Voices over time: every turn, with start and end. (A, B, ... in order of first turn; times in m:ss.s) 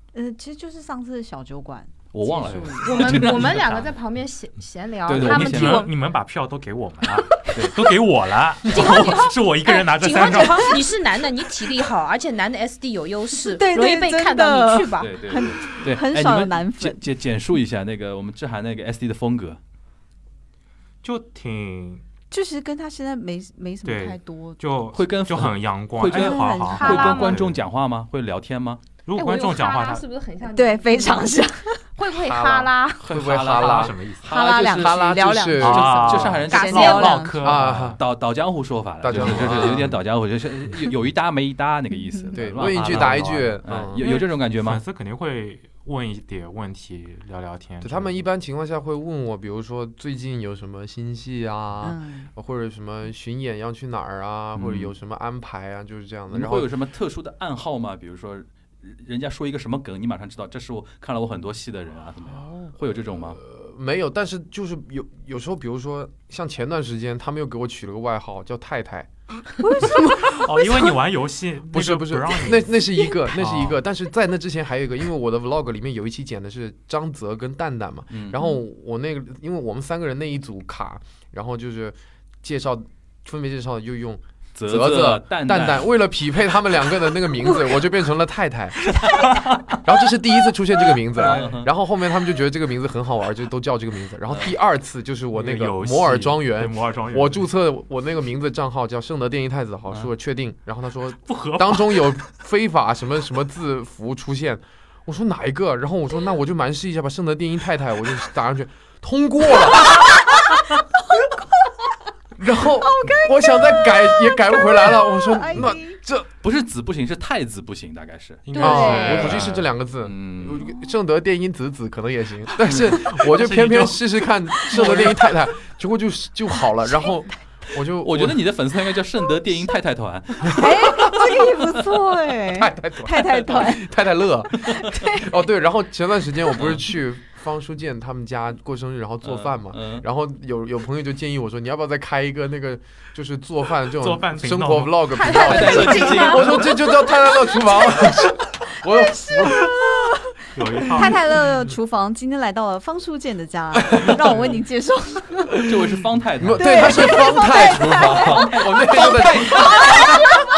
0:00.1-0:03.0 A
0:02.1-0:03.6 B
0:02.5-0:04.0 C
0:02.8-0:05.9 D
0:05.1-0:05.9 B
0:05.1-0:10.9 C
0:07.5-0:07.8 B
0:08.7-0:15.4 D
0:10.2-0:10.8 A
0:13.5-0:17.0 A
0:15.0-0:19.6 B
0:21.0-0:22.0 C
0:22.3-0:24.6 A
0:23.8-0:27.6 C
0:24.9-0:28.8 B
0:26.1-0:27.3 A
0:26.8-0:27.4 D
0:29.1-0:30.1 C
0:29.1-0:31.4 D
0:30.4-0:31.8 A
0:32.0-0:33.0 D
0:32.1-0:34.0 E
0:33.0-0:35.2 B
0:33.5-0:34.5 C
0:34.2-0:37.6 A
0:34.7-0:36.0 E
0:35.6-0:38.0 C
0:35.9-0:37.1 B
0:36.5-0:37.2 D
0:37.4-0:38.0 E
0:38.0-0:44.8 B
0:39.0-0:39.9 E
0:39.2-0:39.7 C
0:42.4-0:44.0 E
0:42.6-0:43.6 C
0:44.5-0:48.2 C
0:47.8-0:56.7 E
0:51.8-0:52.3 A
0:54.6-0:54.9 B
0:56.3-1:03.4 B
1:03.4-1:09.1 E
1:09.6-1:10.9 A
1:09.8-1:13.8 C
1:11.7-1:29.2 E
1:18.1-1:18.4 B
1:24.6-1:25.9 B
1:29.8-1:50.0 E
1:31.2-1:31.6 C
1:31.2-1:31.7 B
1:34.3-1:34.5 B
1:35.3-1:37.5 C
1:41.2-1:42.2 C
1:52.4-1:56.3 E
1:52.8-1:56.0 A
1:56.4-2:00.7 B
1:58.4-1:59.7 C
1:58.6-1:59.2 A
1:58.6-2:08.4 E
1:58.7-1:59.3 D
2:02.6-2:03.1 B
2:03.2-2:04.3 C
2:04.8-2:05.1 C
2:08.0-2:11.5 B
2:10.4-2:13.9 A
2:12.5-2:29.7 E
2:14.8-2:15.3 A
2:19.2-2:20.0 B
2:24.0-2:25.3 C
2:25.2-2:27.3 D
2:25.3-2:26.8 B
2:30.5-2:31.4 C
2:30.9-2:35.7 A
2:35.7-2:40.3 B
2:36.4-2:40.3 E
2:36.6-2:39.1 A